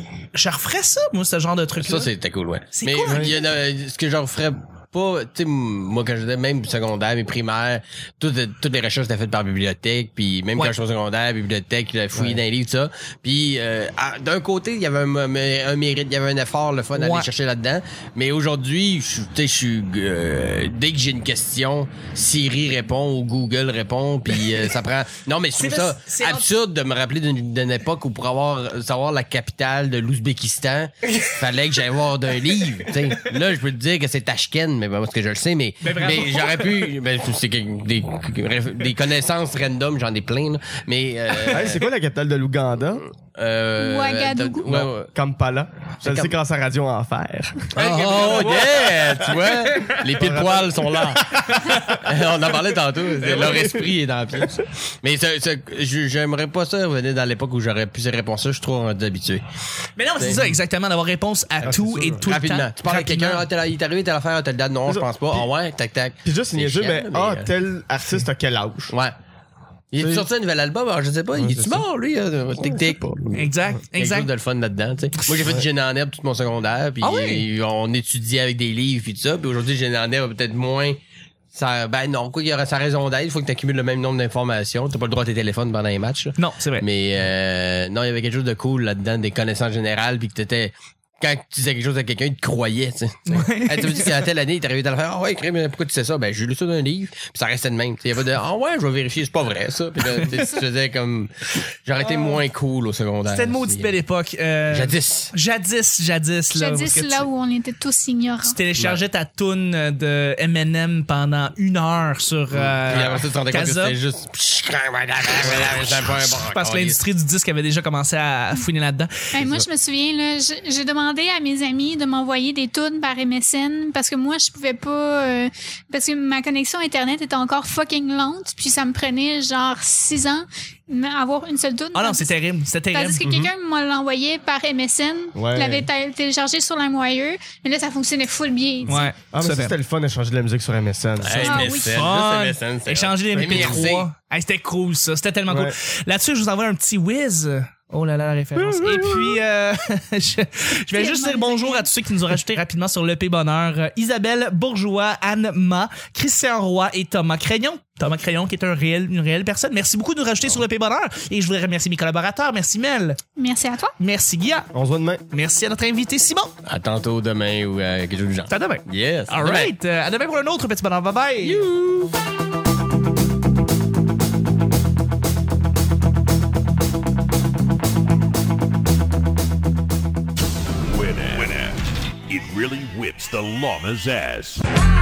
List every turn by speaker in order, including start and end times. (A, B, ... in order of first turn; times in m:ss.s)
0:00.3-0:02.1 A
0:01.8-0:41.9 B
0:02.7-0:03.3 A
0:03.1-0:03.3 C
0:12.1-0:12.4 C
0:17.0-0:17.3 A
0:25.6-0:26.5 A
0:35.8-0:36.8 A
0:41.5-0:43.0 C
0:43.0-0:45.1 B
0:43.8-0:44.7 D
0:44.7-0:47.8 C
0:46.0-0:46.3 B
0:47.8-0:59.4 B
0:47.8-0:50.0 A
0:49.0-0:52.0 C
0:53.2-0:53.7 A
0:53.4-0:53.8 C
1:00.0-1:03.5 A
1:00.2-1:00.6 B
1:01.6-1:02.2 C
1:02.2-1:07.5 B
1:04.9-1:05.5 C
1:06.2-1:09.0 C
1:08.9-1:09.2 B
1:09.9-1:21.0 B
1:10.0-1:10.3 C
1:11.4-1:11.8 C
1:12.6-1:13.2 C
1:13.3-1:14.3 A
1:17.0-1:17.4 A
1:21.5-1:43.9 B
1:26.4-1:26.9 A
1:33.3-1:34.1 A
1:43.3-1:47.3 A
1:44.7-1:45.3 B
1:46.6-1:48.6 D
1:48.4-1:54.0 A
1:48.8-1:49.0 B
1:52.5-1:57.0 B
1:55.4-1:59.1 A
1:59.3-2:12.3 D
1:59.4-1:59.6 B
2:11.9-2:13.2 A
2:12.9-2:19.1 D
2:13.2-2:13.5 B
2:15.4-2:15.9 C
2:18.9-2:19.8 A
2:19.0-2:21.6 C
2:21.2-2:24.1 B
2:21.4-2:22.0 D
2:21.6-2:43.2 A
2:25.5-2:25.8 C
2:28.6-2:29.4 C
2:30.9-2:31.9 D
2:43.4-2:44.0 D
2:44.0-2:44.7 A
2:44.7-2:45.2 C
2:45.3-2:46.5 A
2:46.6-2:49.7 B
2:48.5-2:51.6 A
2:51.4-2:52.1 B
3:00.8-3:04.6 E